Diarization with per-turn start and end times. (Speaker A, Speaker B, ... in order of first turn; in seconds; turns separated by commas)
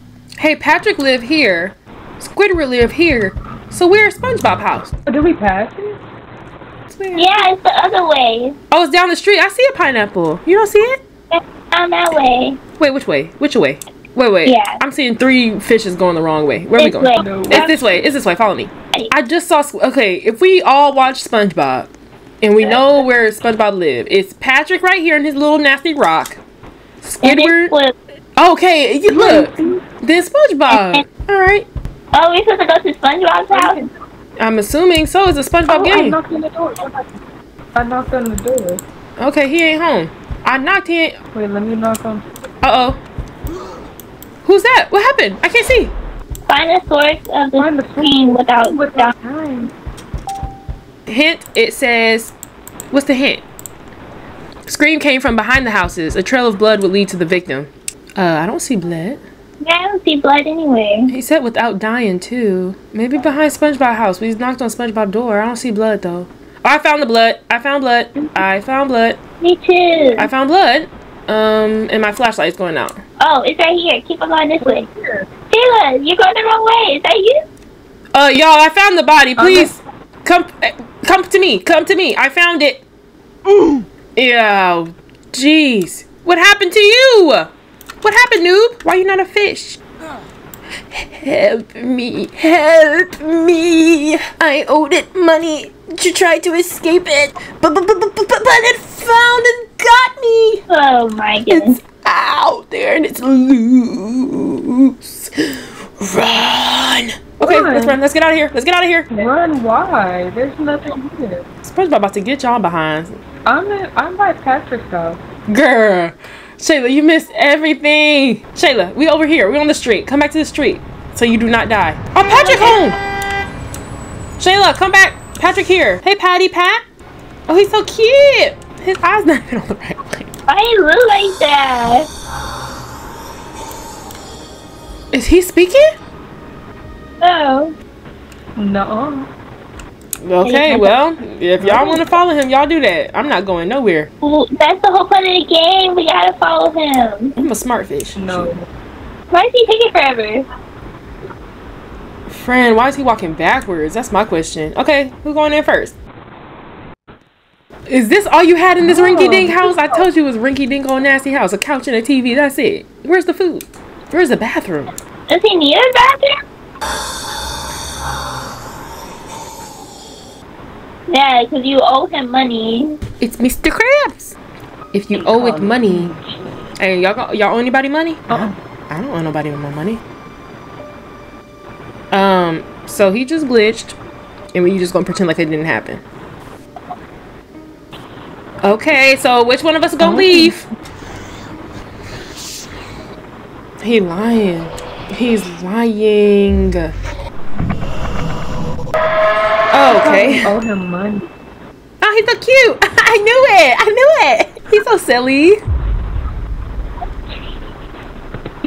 Speaker A: 0.4-4.9, Speaker B: 5.0-6.0, Speaker A: 6.9-7.4, Speaker C: 7.1-8.6, Speaker A: 8.7-11.0, Speaker C: 11.3-12.6, Speaker A: 12.8-21.9, Speaker C: 14.4-14.8, Speaker C: 16.8-17.7, Speaker B: 17.1-17.9, Speaker A: 22.4-26.4, Speaker A: 27.0-27.7, Speaker C: 27.2-27.9, Speaker A: 28.4-31.7, Speaker B: 29.1-29.8, Speaker C: 30.7-31.0, Speaker C: 32.1-33.8, Speaker B: 33.5-33.9, Speaker A: 34.4-36.2, Speaker B: 35.7-37.0, Speaker B: 37.7-38.8, Speaker A: 39.2-41.1, Speaker B: 41.3-42.3, Speaker A: 42.6-43.0, Speaker A: 44.4-45.9, Speaker C: 46.5-49.1, Speaker B: 47.6-49.7, Speaker A: 51.1-52.3, Speaker A: 52.9-53.4, Speaker A: 54.7-59.2, Speaker C: 59.6-61.1, Speaker A: 61.1-69.2, Speaker C: 69.4-70.3, Speaker A: 70.2-73.0, Speaker C: 73.2-74.9, Speaker B: 74.6-75.2, Speaker C: 75.5-77.4, Speaker A: 78.1-82.8, Speaker B: 79.4-79.7, Speaker A: 84.2-87.5, Speaker A: 88.0-89.8, Speaker A: 90.9-100.6, Speaker C: 100.7-101.8, Speaker A: 101.5-109.1, Speaker B: 107.4-108.0, Speaker B: 109.1-111.4, Speaker A: 111.6-113.2, Speaker B: 113.4-115.2, Speaker A: 115.5-123.0, Speaker C: 122.2-123.0, Speaker A: 124.4-126.8, Speaker A: 127.5-130.3, Speaker C: 130.5-132.1, Speaker A: 135.1-135.8, Speaker C: 137.2-137.7, Speaker B: 138.6-139.3, Speaker A: 140.2-144.1, Speaker C: 140.4-140.9, Speaker B: 141.6-142.0, Speaker C: 144.2-147.3, Speaker A: 147.4-148.5, Speaker B: 148.2-148.7, Speaker C: 149.3-150.4, Speaker A: 152.3-155.9, Speaker A: 157.9-164.9, Speaker B: 158.8-160.0, Speaker C: 165.3-166.3, Speaker C: 171.1-173.0, Speaker A: 173.2-174.4, Speaker A: 174.9-176.1, Speaker B: 175.1-176.5, Speaker A: 176.8-178.3, Speaker A: 178.9-180.0, Speaker A: 182.1-184.0, Speaker A: 184.5-186.0, Speaker A: 188.6-190.6, Speaker B: 190.0-190.5, Speaker A: 193.8-196.9, Speaker A: 199.7-200.5, Speaker B: 199.9-201.3, Speaker A: 202.0-205.6